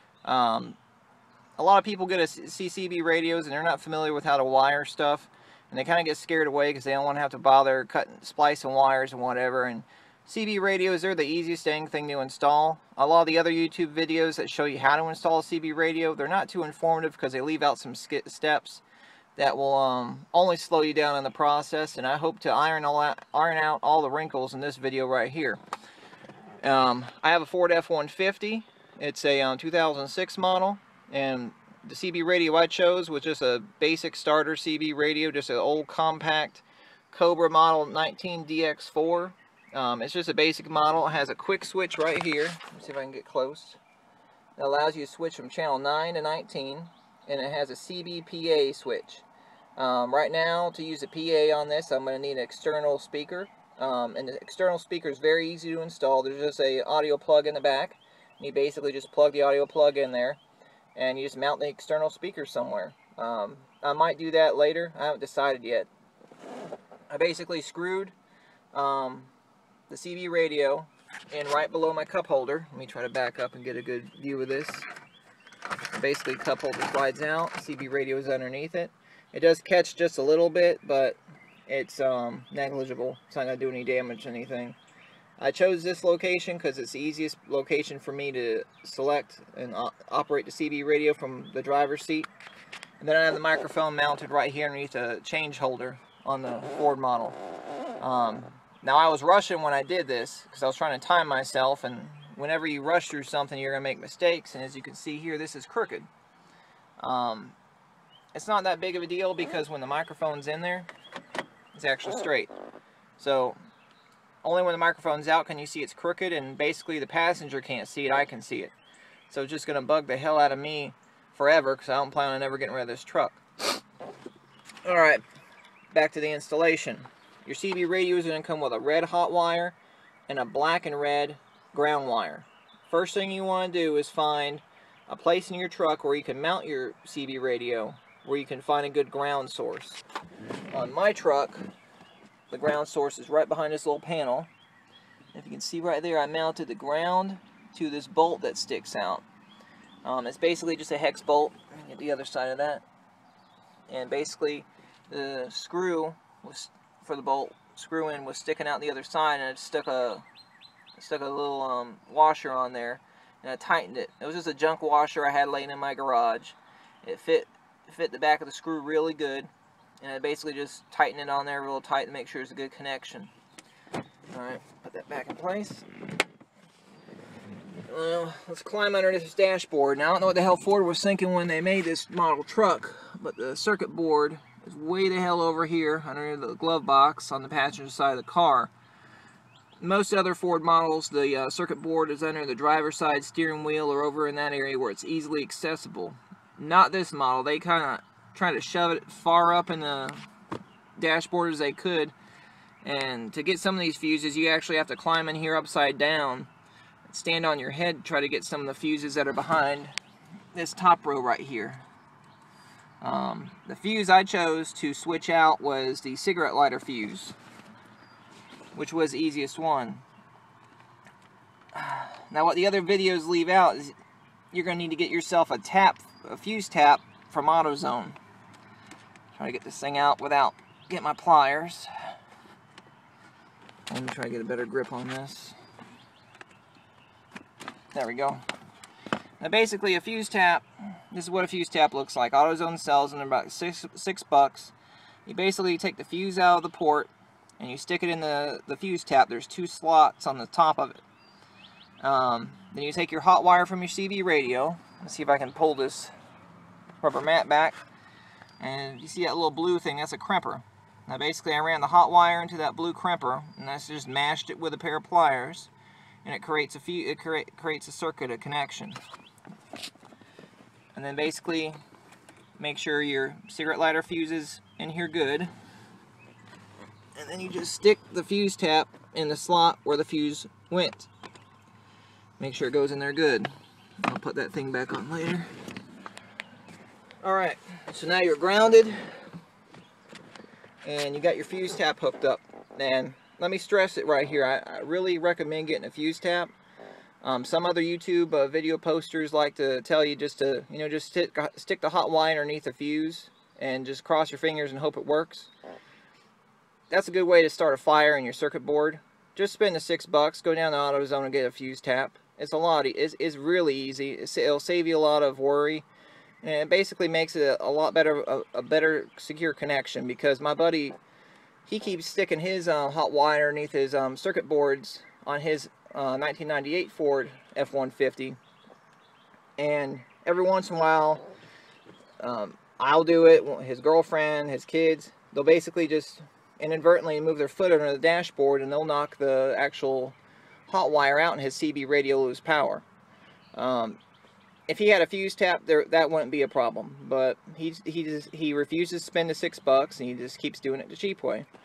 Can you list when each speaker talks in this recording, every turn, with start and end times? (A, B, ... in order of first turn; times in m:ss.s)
0:00.2-0:00.8 A
0:01.6-0:18.8 A
0:19.4-0:25.6 A
0:26.6-0:43.8 A
0:44.6-1:00.4 A
1:00.9-1:05.9 A
1:07.1-1:08.1 A
1:08.7-1:09.3 A
1:09.9-1:14.9 A
1:15.9-1:24.8 A
1:25.4-1:32.3 A
1:33.0-1:37.4 A
1:38.0-1:46.1 A
1:47.0-1:47.6 A
1:48.3-1:50.9 A
1:51.7-1:52.5 A
1:53.2-1:53.6 A
1:54.4-1:58.7 A
1:59.3-2:03.4 A
2:04.8-2:05.2 A
2:05.9-2:20.0 A
2:20.7-2:21.7 A
2:22.5-2:24.5 A
2:25.3-2:29.2 A
2:30.0-2:32.8 A
2:33.9-2:40.2 A
2:41.0-2:53.3 A
2:54.3-2:55.9 A
2:57.9-3:08.7 A
3:09.8-3:20.3 A
3:21.0-3:22.1 A
3:22.8-3:26.5 A
3:27.0-3:29.9 A
3:30.5-3:31.8 A
3:33.0-3:37.3 A
3:38.7-3:40.0 A
3:41.7-3:44.0 A
3:44.5-3:48.2 A
3:49.3-3:51.9 A
3:53.9-3:55.6 A
3:57.9-3:58.4 A
3:59.4-4:04.7 A
4:05.2-4:11.0 A
4:12.0-4:16.1 A
4:17.0-4:17.8 A
4:18.6-4:25.7 A
4:26.2-4:29.0 A
4:30.9-4:31.8 A
4:32.6-4:35.5 A
4:37.1-4:41.1 A
4:42.4-4:45.5 A
4:47.2-4:49.2 A
4:50.8-4:56.5 A
4:57.2-5:05.5 A
5:06.9-5:15.8 A
5:16.4-5:21.0 A
5:21.6-5:28.4 A
5:29.6-5:31.2 A
5:32.2-5:40.2 A
5:40.7-5:42.8 A
5:43.5-5:44.0 A
5:44.7-5:51.5 A